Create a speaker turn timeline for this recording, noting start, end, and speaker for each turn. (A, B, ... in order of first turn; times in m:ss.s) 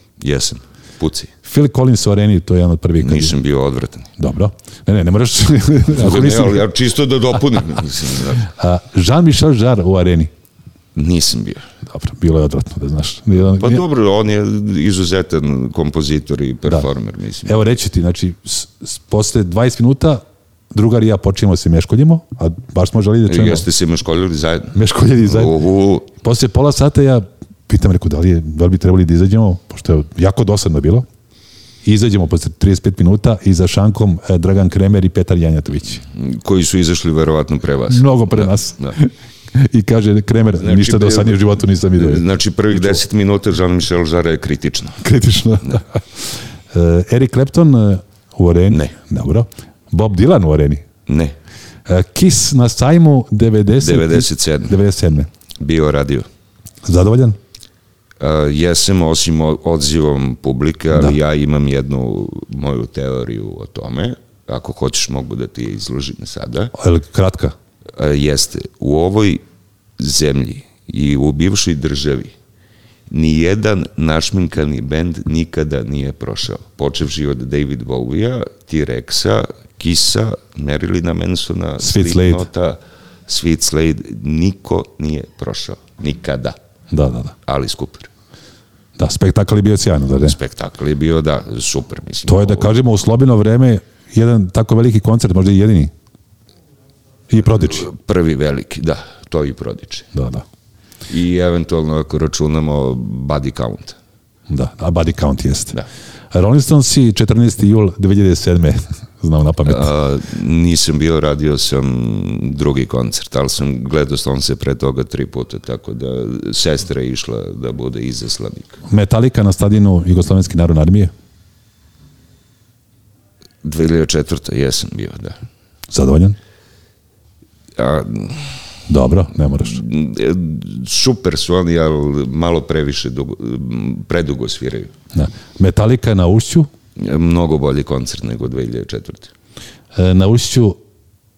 0:00.2-0:01.3 A
0:01.4-0:03.3 B
0:03.0-0:04.1 A
0:04.2-0:06.6 B
0:05.9-0:08.5 A
0:08.4-0:10.3 B
0:10.9-0:11.7 A
0:11.9-0:13.8 B
0:13.4-0:17.7 A
0:17.4-0:23.6 B
0:23.3-0:26.1 A
0:24.7-0:25.5 B
0:26.1-0:31.0 B
0:31.8-0:36.0 B
0:36.0-0:39.0 A
0:37.9-0:42.2 B
0:40.6-0:41.4 A
0:42.0-0:45.0 A
0:45.0-0:50.8 B
0:48.7-0:49.0 A
0:51.0-0:51.4 A
0:51.9-0:55.3 B
0:53.8-0:54.8 A
0:55.6-0:56.2 A
0:56.8-0:57.4 B
0:58.2-1:06.7 A
1:06.7-1:07.5 B
1:08.0-1:09.4 A
1:10.0-1:12.3 A
1:13.1-1:26.6 A
1:21.8-1:22.5 B
1:26.9-1:27.3 B
1:27.4-1:28.1 A
1:29.0-1:30.4 B
1:30.2-1:32.7 A
1:32.3-1:35.9 B
1:37.3-1:37.8 B
1:37.6-1:40.1 A
1:40.1-1:40.4 B
1:41.1-1:44.0 A
1:44.5-1:45.8 B
1:46.3-1:49.9 B
1:49.6-1:58.8 A
1:58.8-2:01.1 B
2:03.6-2:05.4 A
2:05.9-2:06.4 B
2:07.8-2:08.6 A
2:08.9-2:09.8 B
2:09.6-2:14.9 A
2:15.1-2:16.7 B
2:17.0-2:19.3 A
2:19.9-2:20.8 B